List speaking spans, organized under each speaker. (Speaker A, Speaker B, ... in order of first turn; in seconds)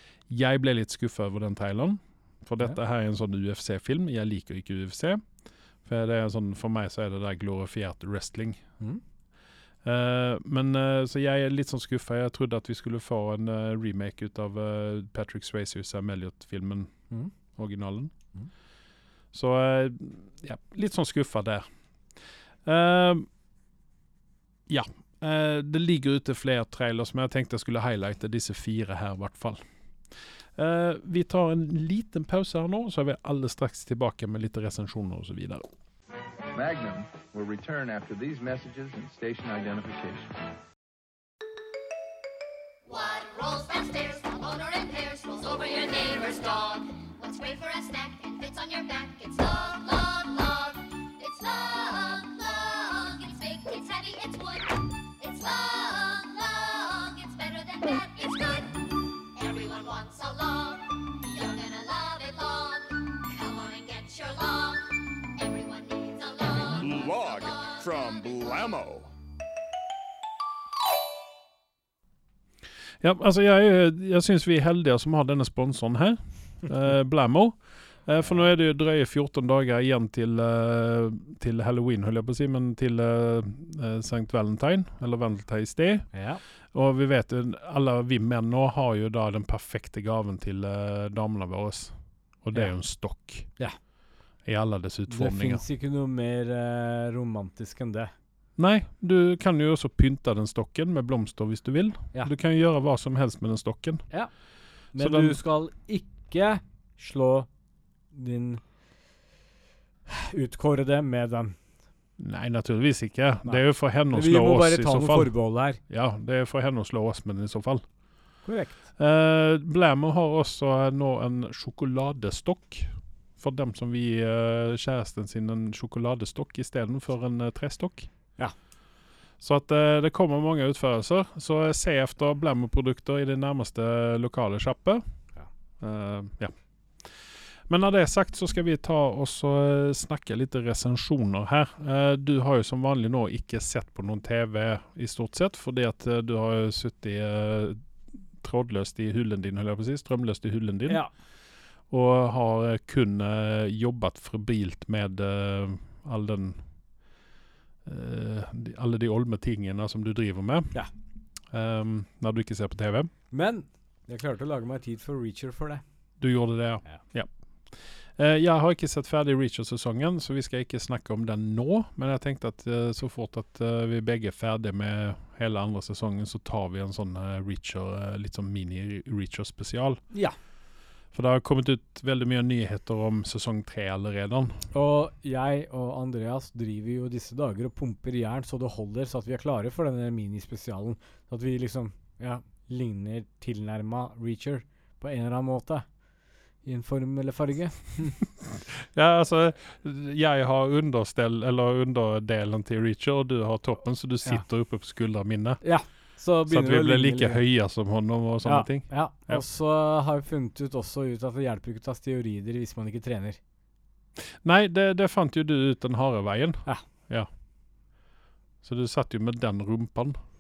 Speaker A: 0.3-5.3, 5.8-8.6, 9.8-18.1, 19.3-23.3, 24.7-35.6, 73.0-86.1, 86.7-93.5, 94.5-95.6, 98.6-104.1, 105.0-105.4, 112.2-117.8, 119.0-128.1, 129.4-135.0, 135.8-147.8, 148.4-151.0, 151.9-156.7, 157.8-160.8, 161.5-163.1, 166.2-180.0, 181.1-184.7, 198.7-209.4, 214.2-217.3, 218.6-220.2
Speaker B: 36.5-40.3
Speaker C: 42.9-67.9
Speaker D: 66.7-69.1
Speaker E: 86.1-86.4, 95.1-98.1, 104.9-107.5, 108.1-108.7, 110.1-111.6, 113.5-115.8, 118.4-118.8, 163.3-165.8, 184.7-195.9, 196.6-198.2, 205.6-207.4, 208.4-213.4